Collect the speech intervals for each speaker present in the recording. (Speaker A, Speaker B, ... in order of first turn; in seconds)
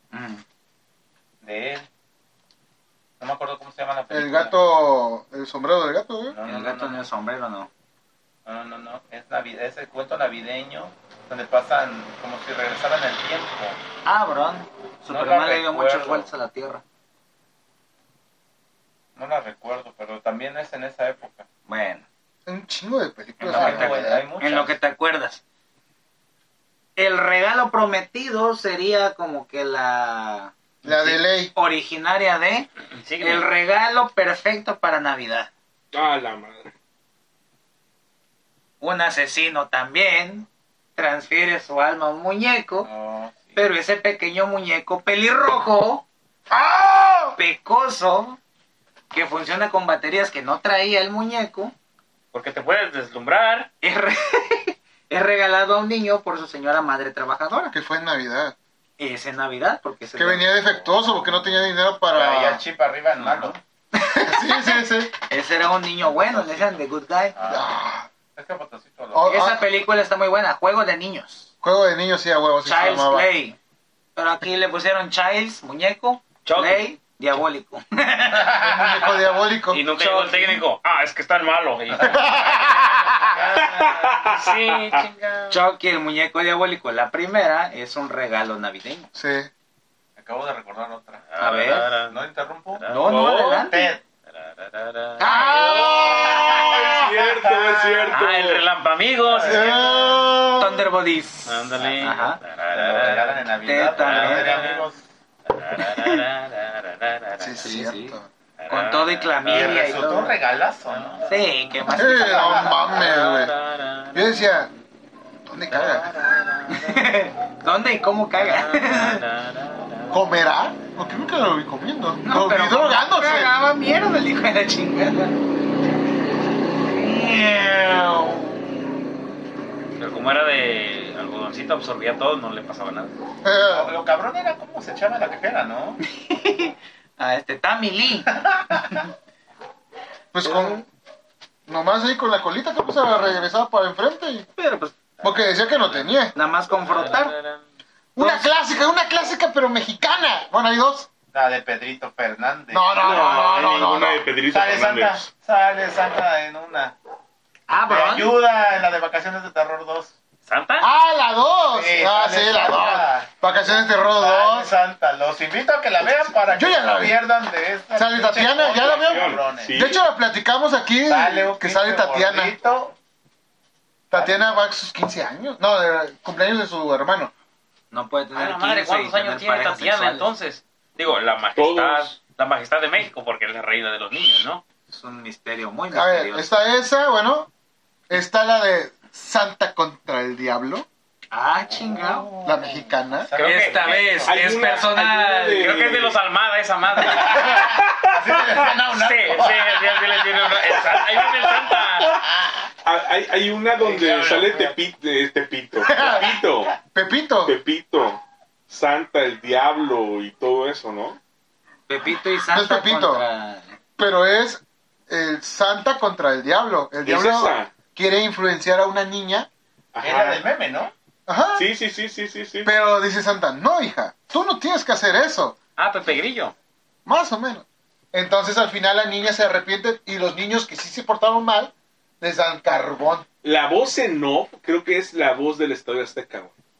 Speaker A: 0.1-0.4, 6.5-7.7, 14.0-16.8, 21.7-22.0, 23.4-25.4, 26.9-32.7, 33.2-35.5, 38.8-42.9, 43.5-46.0, 47.4-48.4, 49.1-51.7, 53.8-57.7, 59.0-60.5, 63.2-67.3, 69.2-71.5, 72.6-73.6, 74.2-78.7, 79.9-80.6, 85.5-89.1, 91.4-91.9, 92.9-93.9, 95.2-96.0, 100.5-102.4, 103.6-104.7, 107.6-108.2, 108.7-110.4, 111.3-113.0, 116.7-119.2, 122.2-125.4, 126.8-128.7, 136.0-139.0, 140.4-140.8, 144.6-144.9, 146.3-147.3, 148.2-148.5, 157.7-158.4, 177.9-180.3, 184.9-186.5, 191.3-192.3, 193.4-195.8, 211.9-213.8
Speaker B: 1.4-1.9, 3.2-4.5, 6.3-7.0, 8.4-13.8, 15.1-16.3, 19.1-21.4, 23.4-24.8, 42.8-43.7, 62.1-63.6, 66.0-66.8, 67.3-67.7, 68.3-69.5, 78.5-79.3, 81.9-84.2, 90.2-92.9, 93.7-94.0, 95.8-98.2, 99.2-100.2, 101.8-105.0, 109.4-111.2, 112.2-112.8, 133.6-136.0, 138.3-139.0, 151.3-153.8, 154.5-156.9, 157.9-160.1, 161.7-169.7, 171.1-172.9, 174.1-174.7, 191.8-194.7, 197.1-200.5, 203.8-204.7, 220.0-220.9
Speaker C: 4.1-6.4, 22.4-24.2, 30.8-31.5, 46.5-47.4, 57.7-58.5, 60.1-62.6, 64.1-65.1, 67.5-68.1, 69.1-69.6, 71.6-73.3, 78.6-79.8, 82.0-83.2, 89.1-89.5, 95.2-96.7, 99.4-100.9, 107.4-108.3, 111.9-113.5, 114.1-114.7, 115.5-116.1, 120.1-123.5, 133.4-133.9, 140.3-140.8, 141.7-144.5, 145.2-146.3, 148.2-151.1, 152.7-154.2, 160.8-164.7, 166.0-167.2, 167.9-172.5, 174.1-177.3, 185.9-187.5, 188.1-190.8, 192.4-193.3, 205.9-206.3, 206.8-207.6, 212.5-213.2, 214.0-219.5, 221.3-221.7, 222.6-225.6, 227.1-233.2
Speaker D: 33.0-33.5, 52.3-53.7, 76.4-76.8, 79.7-83.4, 84.1-85.6, 91.3-92.2, 92.7-93.1, 94.3-96.0, 98.1-99.8, 101.5-104.9, 105.5-107.6, 108.6-109.9, 110.9-111.5, 112.9-114.6, 115.7-117.1, 118.4-120.2, 130.0-133.1, 145.2-147.6, 160.5-160.9, 178.3-184.6, 193.3-194.1, 195.6-197.7, 198.9-202.2, 225.8-226.5
Speaker E: 35.9-36.7, 83.6-85.0, 93.0-93.7, 96.2-98.6, 152.9-155.3, 168.6-170.0, 181.6-182.2, 194.2-196.2, 197.5-198.6, 201.2-202.2, 202.8-206.7, 207.4-211.2, 217.0-217.7, 219.9-220.4, 221.6-222.7, 233.4-236.5